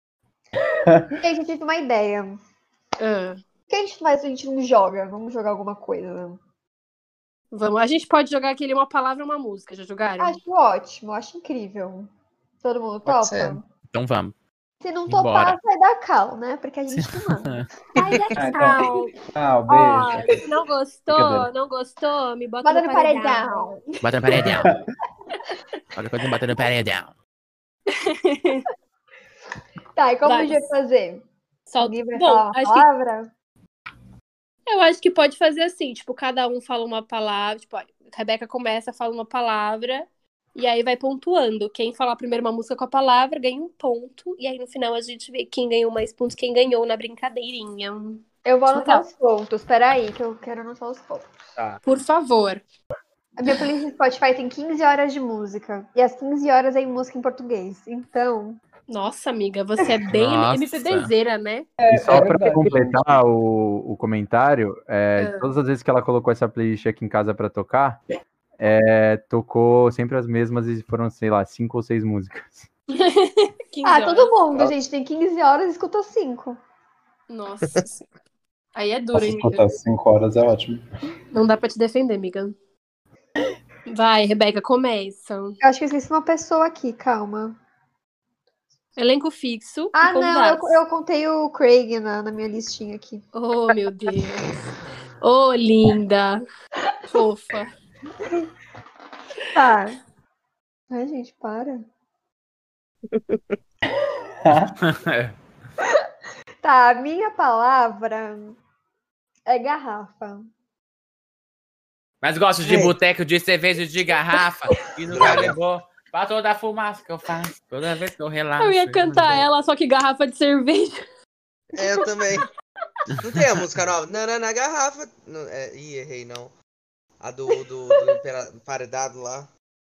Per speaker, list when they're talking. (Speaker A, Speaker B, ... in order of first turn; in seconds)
Speaker A: 0.8-1.1, 18.3-20.4, 21.1-21.5, 24.3-24.9, 61.8-63.2, 79.1-80.8, 104.4-104.8
Speaker B: 1.1-2.4, 3.7-6.4, 10.2-12.1, 12.6-13.6, 14.8-17.6, 22.6-24.5, 30.0-31.2, 31.8-33.3, 48.5-51.4, 53.4-58.6, 73.8-76.6, 85.6-87.6, 90.0-93.2, 99.5-100.0, 100.9-101.8, 106.6-108.6, 109.5-110.5
Speaker C: 3.0-3.4, 7.5-10.4, 17.9-19.1, 19.7-23.7, 27.9-28.7, 30.2-30.7, 31.7-32.9, 34.7-49.0, 51.8-52.6, 58.9-61.7, 65.2-65.5, 72.9-74.3, 77.3-78.0, 78.8-79.7, 81.3-82.5, 83.9-85.6, 89.0-90.8, 93.3-94.5, 95.2-96.4, 97.1-97.7, 118.6-121.0
Speaker D: 13.1-13.6, 103.1-103.4, 112.6-113.0, 115.1-115.6, 121.8-122.5, 123.2-126.5, 127.2-129.5
Speaker E: 13.9-14.3, 15.1-15.6, 16.9-17.7, 24.0-24.7, 25.9-27.1, 60.1-61.1, 104.8-105.3, 112.2-119.5
Speaker F: 61.9-68.0, 68.6-72.7